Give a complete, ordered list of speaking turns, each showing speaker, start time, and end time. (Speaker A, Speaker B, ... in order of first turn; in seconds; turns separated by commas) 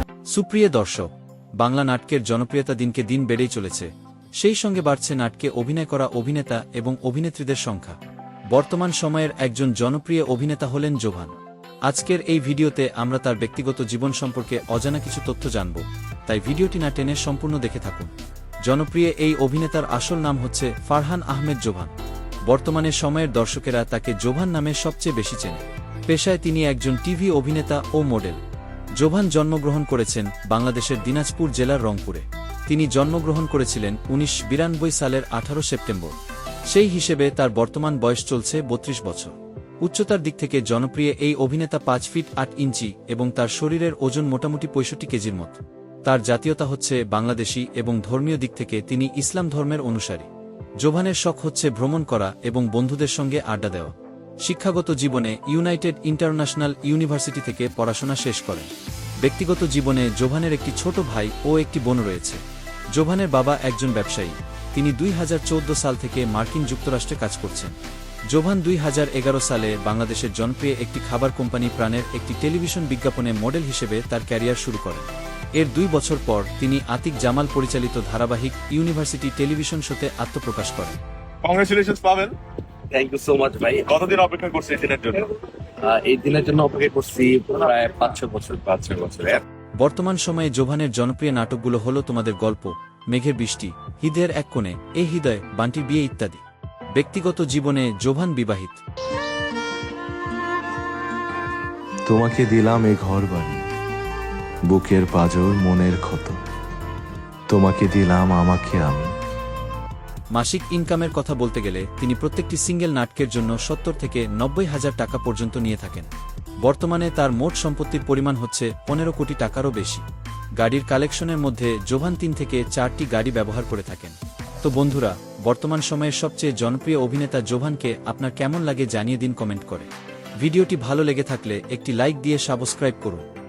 Speaker A: 0.3-8.0, Speaker A: 8.5-11.3, Speaker A: 11.8-18.1, Speaker A: 18.6-21.9, Speaker A: 22.5-28.4, Speaker A: 29.0-36.1, Speaker A: 36.7-50.3, Speaker A: 50.8-58.7, Speaker A: 59.2-62.4, Speaker A: 62.9-67.7, Speaker A: 68.3-81.0, Speaker B: 81.4-82.4, Speaker C: 82.9-84.0, Speaker B: 83.8-85.2, Speaker C: 85.3-89.4, Speaker A: 89.8-98.8, Speaker D: 102.1-103.7, Speaker D: 104.7-106.4, Speaker D: 107.5-109.1, Speaker A: 110.3-116.1, Speaker A: 116.6-120.0, Speaker A: 120.6-133.2